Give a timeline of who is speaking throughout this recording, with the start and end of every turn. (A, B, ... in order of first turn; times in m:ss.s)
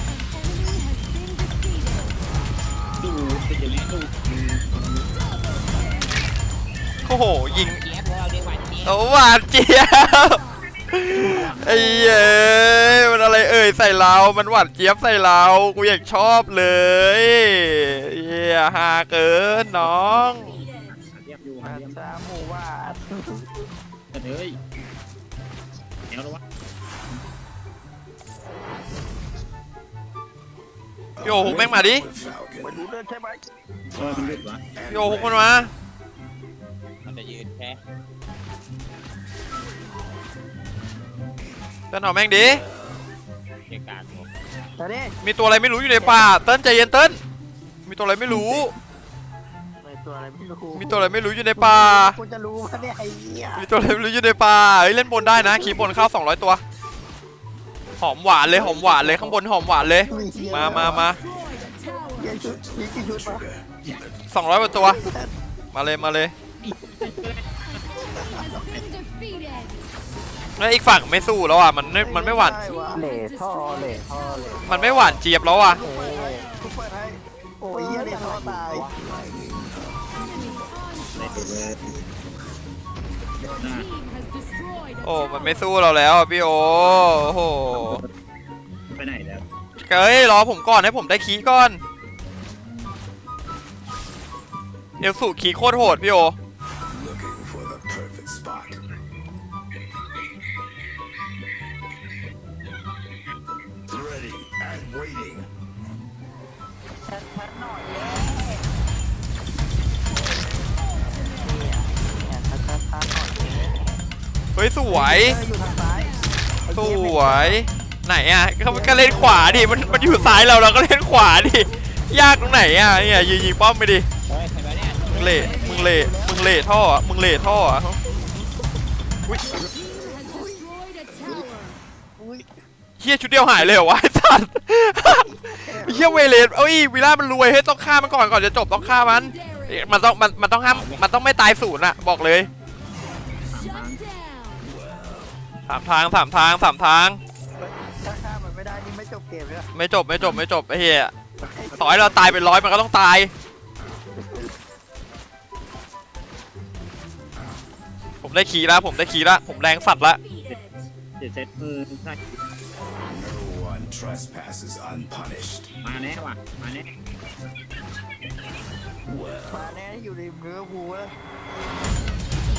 0:03.0-0:05.1 A
0:07.0-0:07.8 B
0:07.5-0:09.0 C
0:08.8-0:20.6 B
0:11.1-0:12.2 A
0:19.5-0:22.0 A
0:21.6-0:23.6 D
0:24.1-0:24.6 A
0:26.1-0:26.4 A
0:31.2-0:32.8 E
0:31.2-0:32.1 B
0:32.6-0:33.4 D
0:33.9-0:34.6 A
0:33.9-0:35.5 E
0:34.9-0:35.7 B
0:37.0-0:37.8 C
0:41.9-0:42.6 B
0:42.5-0:42.9 E
0:43.7-0:44.3 A
0:44.8-0:45.1 D
0:45.2-0:47.2 B
0:46.0-0:46.3 D
0:47.8-0:48.7 B
0:49.8-0:53.7 D
0:50.7-0:52.2 B
0:53.6-0:56.6 B
0:58.0-1:01.2 B
0:58.6-0:59.4 D
1:00.1-1:01.1 D
1:00.6-1:04.3 E
1:02.1-1:03.4 D
1:04.3-1:05.0 B
1:04.7-1:05.3 D
1:05.7-1:06.3 B
1:06.6-1:07.7 A
1:08.5-1:08.8 A
1:10.6-1:12.6 B
1:12.0-1:13.1 D
1:12.9-1:14.7 F
1:14.4-1:15.1 D
1:14.6-1:15.8 B
1:15.7-1:18.9 D
1:15.8-1:16.4 F
1:17.6-1:18.9 F
1:19.0-1:21.4 E
1:21.1-1:21.8 A
1:23.4-1:23.9 A
1:25.0-1:28.0 B
1:27.7-1:28.0 A
1:29.0-1:29.4 A
1:29.8-1:31.8 B
1:35.0-1:36.3 B
1:36.9-1:38.8 E
1:43.9-1:45.5 E
1:47.0-1:48.6 D
1:51.4-1:53.8 D
1:54.6-1:55.4 B
1:54.9-1:57.6 D
1:56.7-2:04.1 B
1:58.7-2:00.5 D
2:04.3-2:05.1 C
2:05.1-2:06.5 D
2:05.1-2:08.5 B
2:05.2-2:05.5 A
2:09.3-2:09.5 B
2:10.0-2:11.5 D
2:12.2-2:12.5 D
2:13.0-2:15.2 B
2:15.0-2:16.3 D
2:15.8-2:22.5 B
2:20.7-2:21.0 A
2:23.5-2:24.0 A
2:24.6-2:25.3 E
2:25.7-2:27.2 B
2:27.6-2:29.7 D
2:29.7-2:31.1 B
2:31.4-2:32.6 D
2:31.8-2:33.3 B
2:34.2-2:34.5 D
2:38.2-2:40.2 B
2:41.2-2:42.4 A
2:43.0-2:45.7 E
2:45.8-2:46.9 A
2:49.1-2:49.7 E
2:49.5-2:51.1 D